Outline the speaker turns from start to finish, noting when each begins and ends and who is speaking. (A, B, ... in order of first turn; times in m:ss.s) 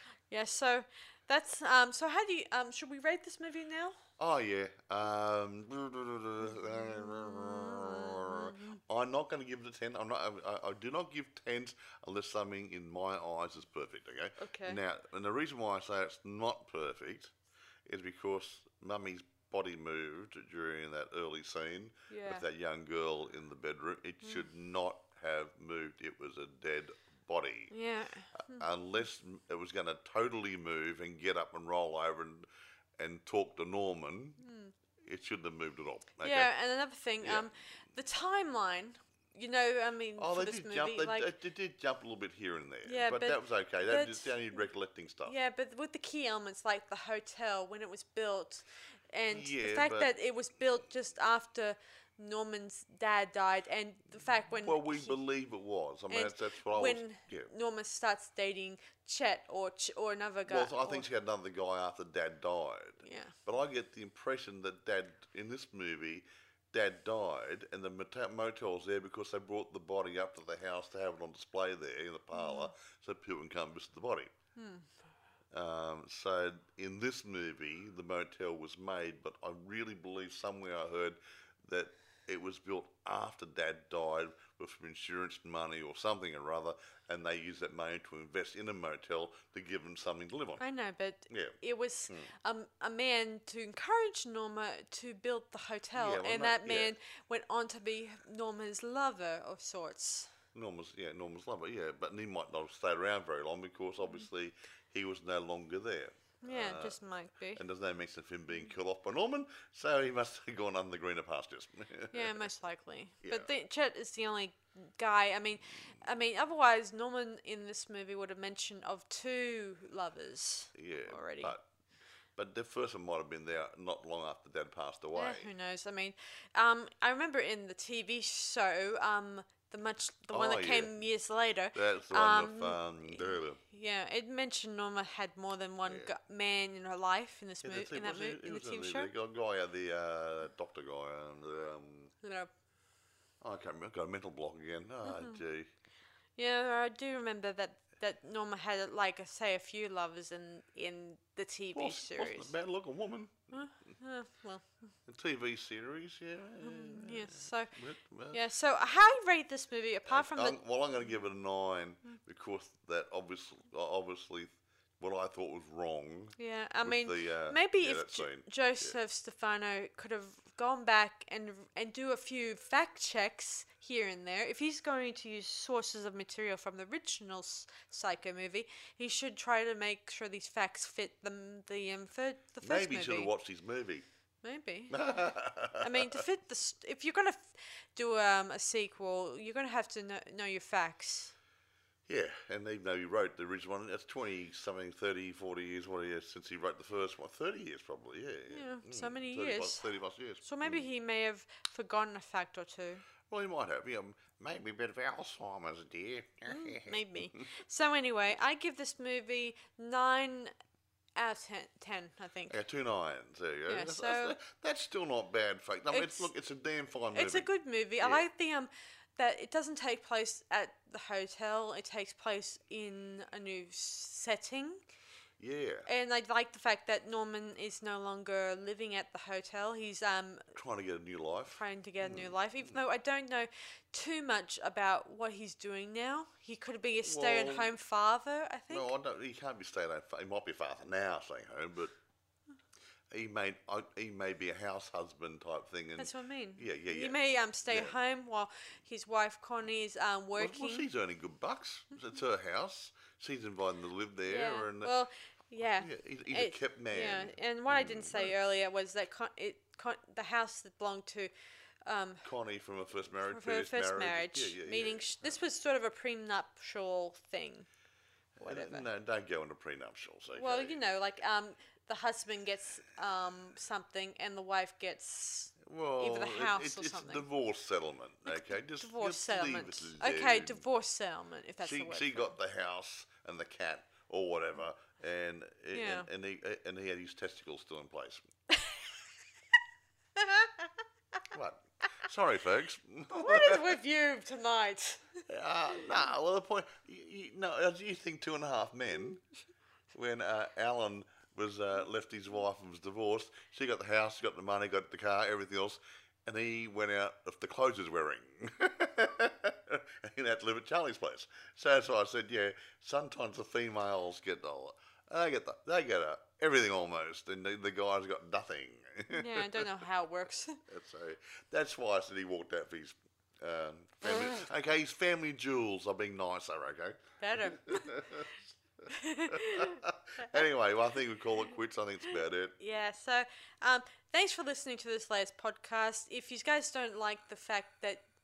0:00.3-0:04.0 A
0:04.2-0:17.3 B
0:06.5-0:08.8 A
0:14.4-0:14.8 A
0:17.8-0:27.7 B
0:22.1-0:22.4 A
0:27.7-0:28.6 A
0:28.3-0:32.5 B
0:33.0-0:34.4 B
0:34.4-0:34.7 A
0:35.0-0:36.5 B
0:36.2-0:41.3 A
0:37.2-0:37.5 B
0:40.2-0:45.3 B
0:42.8-0:44.6 A
0:45.2-0:55.2 A
0:49.3-0:50.1 B
0:54.6-0:57.5 B
0:56.1-1:01.1 A
1:00.4-1:14.3 B
1:03.0-1:03.4 A
1:12.3-1:12.7 A
1:14.6-1:14.9 A
1:15.5-1:30.6 B
1:30.6-1:40.3 A
1:31.3-1:31.6 B
1:36.0-1:36.9 B
1:40.5-1:47.0 B
1:46.4-1:47.6 A
1:47.6-1:52.5 B
1:52.1-2:01.5 A
1:53.2-1:53.5 B
2:00.7-2:01.6 B
2:02.4-2:05.5 B
2:05.1-2:19.1 A
2:10.3-2:10.9 B
2:11.7-2:13.6 B
2:15.8-2:16.1 B
2:17.6-2:22.1 B
2:22.2-2:22.5 A
2:23.4-2:25.7 B
2:25.0-2:25.4 A
2:26.4-2:32.5 A
2:31.7-2:33.5 B
2:33.5-2:34.7 A
2:35.1-2:38.4 B
2:36.6-2:37.7 A
2:38.3-2:40.6 A
2:40.0-2:49.0 B
2:46.4-3:03.3 A
3:02.6-3:04.0 B
3:04.4-3:05.0 A
3:04.9-3:06.2 B
3:05.8-3:11.3 A
3:12.1-3:20.9 B
3:18.5-3:19.9 A
3:20.4-3:23.0 A
3:23.3-3:27.2 B
3:26.4-3:30.5 A
3:31.2-3:32.6 A
3:32.5-3:37.5 B
3:33.7-3:34.4 A
3:35.9-3:36.3 A
3:37.1-3:44.8 A
3:38.0-3:38.2 B
3:45.4-3:45.9 B
3:45.8-3:50.5 A
3:50.5-3:52.8 B
3:51.6-3:58.9 A
3:57.0-3:57.7 B
3:58.7-4:01.9 B
4:03.1-4:07.9 B
4:06.0-4:10.9 A
4:10.4-4:14.9 B
4:14.2-4:21.3 A
4:15.8-4:18.3 B
4:21.8-4:22.3 A
4:22.2-4:25.4 B
4:23.3-4:27.7 A
4:28.4-4:30.8 B
4:28.4-4:28.8 A
4:30.3-4:37.2 A
4:35.6-4:40.6 B
4:38.3-4:42.4 A
4:41.6-4:48.2 B
4:45.7-4:46.1 A
4:48.5-4:48.8 A
4:50.2-4:50.7 A
4:51.3-4:53.8 B
4:53.1-4:55.2 A
4:55.3-4:59.2 B
4:59.9-5:19.7 B
5:19.1-5:20.6 A
5:20.6-5:28.4 B
5:27.2-5:28.2 A
5:28.9-5:30.4 A
5:29.3-5:32.6 B
5:32.6-5:38.1 A